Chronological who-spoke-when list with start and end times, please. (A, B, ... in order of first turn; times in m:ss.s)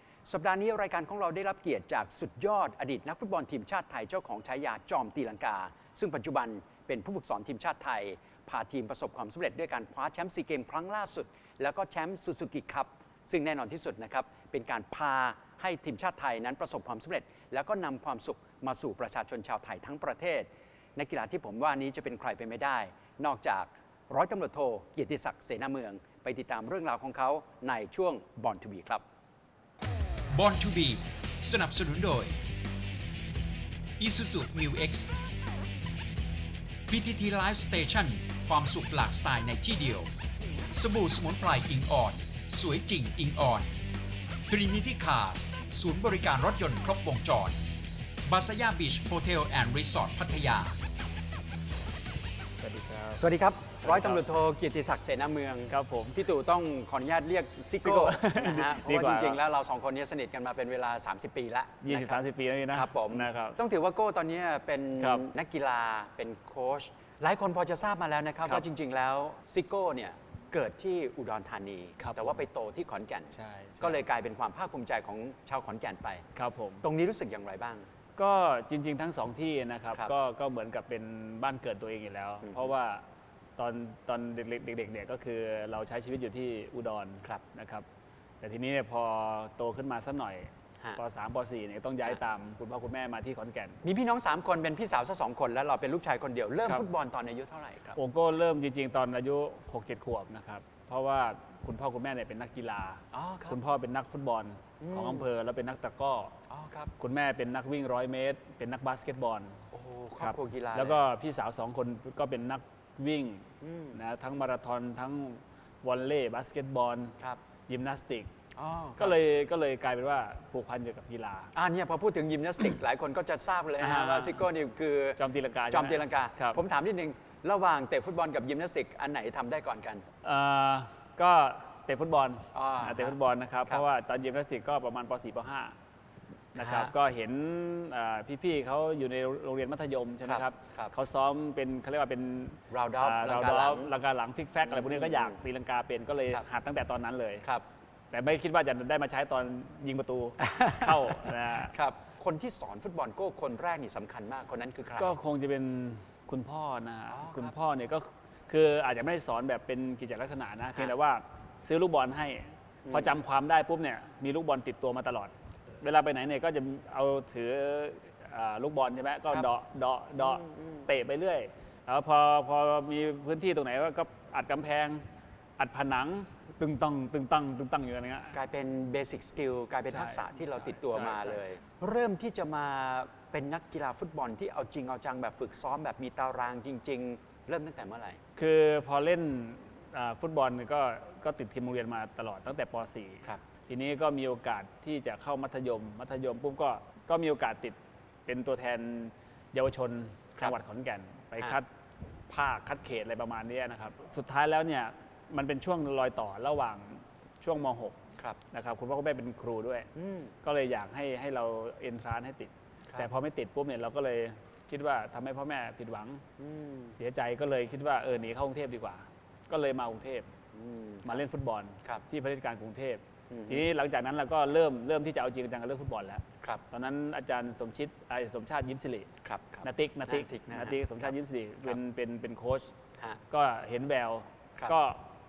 0:00.2-0:29.0 A
0:30.3-0:32.4 B
0:34.0-0:35.1 B
0:36.9-0:40.1 B
0:40.7-0:43.7 B
0:44.5-0:47.6 B
0:48.3-0:50.8 B
0:52.6-0:53.2 C
0:53.2-1:02.2 A
0:53.8-0:54.2 C
0:55.7-0:56.2 C
0:57.8-0:59.4 C
1:01.8-1:03.6 C
1:02.7-1:16.2 A
1:05.0-1:05.2 C
1:12.0-1:12.4 C
1:13.3-1:14.0 C
1:16.4-1:16.8 C
1:16.8-1:17.9 A
1:18.2-1:23.0 C
1:23.6-1:27.9 C
1:28.4-1:33.8 C
1:33.8-1:38.0 A
1:38.0-1:46.4 C
1:43.1-1:43.6 A
1:44.8-1:45.2 A
1:46.5-1:46.9 A
1:47.0-1:49.6 C
1:49.7-1:51.0 A
1:50.2-1:57.2 C
1:53.6-1:54.0 A
1:57.7-1:58.3 C
1:58.6-1:59.2 A
1:59.0-2:01.5 C
2:01.6-2:05.2 A
2:03.8-2:04.4 C
2:05.2-2:06.6 C
2:05.7-2:10.0 A
2:10.2-2:15.8 C
2:12.5-2:13.2 A
2:16.6-2:27.4 C
2:16.6-2:16.9 A
2:20.3-2:20.9 A
2:22.7-2:23.9 A
2:24.7-2:25.4 A
2:28.1-2:31.7 C
2:30.4-2:31.2 A
2:31.7-2:35.2 A
2:35.0-2:55.1 C
2:37.1-2:37.5 A
2:42.8-2:43.1 A
2:50.2-2:50.9 A
2:55.6-2:58.4 C
2:58.3-3:08.2 A
2:59.9-3:01.4 C
3:08.4-3:21.7 C
3:22.3-3:28.0 C
3:28.5-3:29.9 C
3:30.0-3:30.3 A
3:30.4-3:36.2 C
3:36.4-3:36.9 A
3:36.9-3:40.3 C
3:40.5-3:41.2 A
3:41.0-3:49.1 C
3:43.3-3:43.7 A
3:49.2-3:51.1 A
3:49.6-3:52.7 C
3:53.3-3:55.1 C